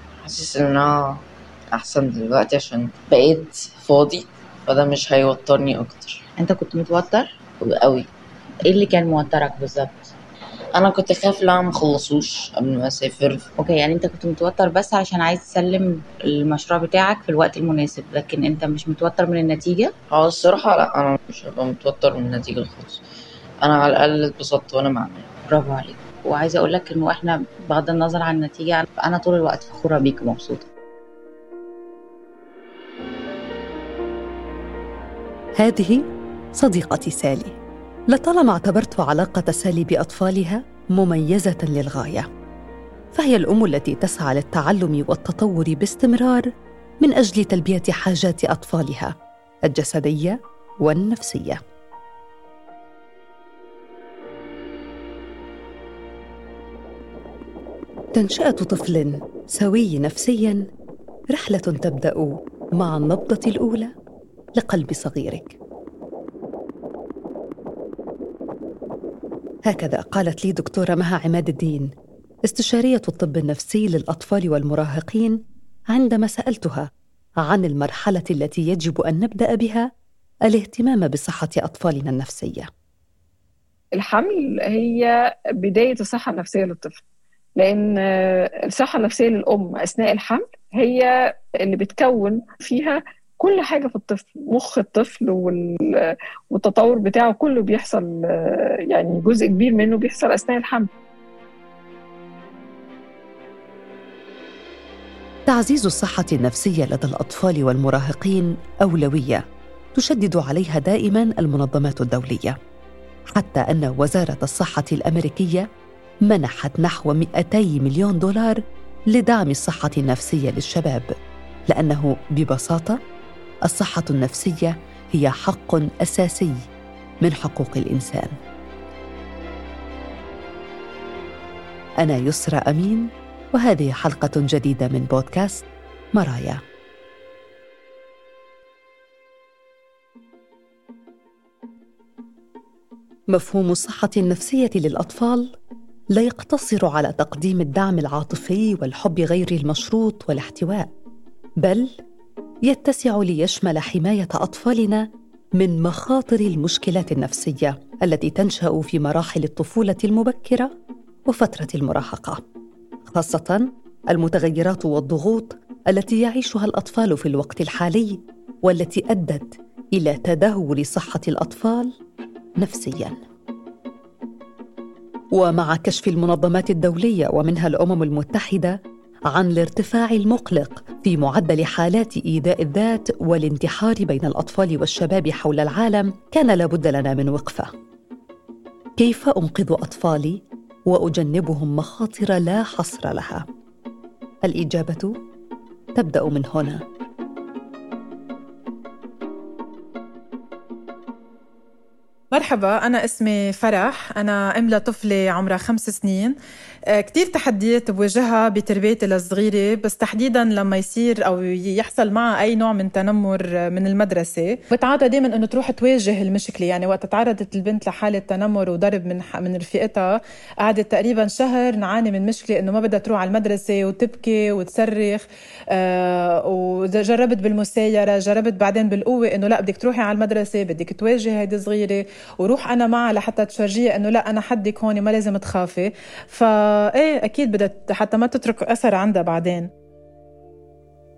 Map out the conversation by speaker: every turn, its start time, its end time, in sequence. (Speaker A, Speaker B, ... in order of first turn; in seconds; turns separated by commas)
Speaker A: 0.2-6.2, Speaker B: 6.4-7.4, Speaker A: 7.8-8.1, Speaker B: 8.6-10.1, Speaker A: 10.7-13.4, Speaker B: 13.6-19.9, Speaker A: 20.1-23.0, Speaker A: 23.6-25.4, Speaker B: 25.4-30.7, Speaker C: 35.6-36.0, Speaker C: 36.5-37.6, Speaker C: 38.1-42.3, Speaker C: 43.1-46.4, Speaker C: 47.0-49.1, Speaker C: 49.7-51.6, Speaker C: 58.1-60.6, Speaker C: 61.3-63.9, Speaker C: 64.6-65.6, Speaker C: 69.7-71.9, Speaker C: 72.5-75.4, Speaker C: 75.9-76.8, Speaker C: 77.5-79.8, Speaker C: 80.5-82.7, Speaker D: 83.9-85.1, Speaker D: 85.6-87.0, Speaker D: 87.6-91.1, Speaker D: 91.6-98.1, Speaker D: 98.9-100.9, Speaker C: 105.5-109.4, Speaker C: 109.9-112.5, Speaker C: 113.3-115.7, Speaker C: 116.3-118.6, Speaker C: 119.1-121.1, Speaker C: 121.7-123.0, Speaker C: 123.7-126.6, Speaker C: 127.2-128.3, Speaker C: 132.0-136.6, Speaker C: 143.3-145.5, Speaker C: 146.1-150.9, Speaker C: 151.6-151.9, Speaker C: 152.7-155.1, Speaker C: 155.6-160.7, Speaker C: 161.3-162.4, Speaker C: 163.1-171.9, Speaker C: 172.6-173.2, Speaker C: 175.3-178.8, Speaker C: 179.3-187.7, Speaker C: 189.0-193.4, Speaker C: 194.4-195.1, Speaker C: 195.9-196.8, Speaker E: 202.3-206.3, Speaker E: 206.9-239.7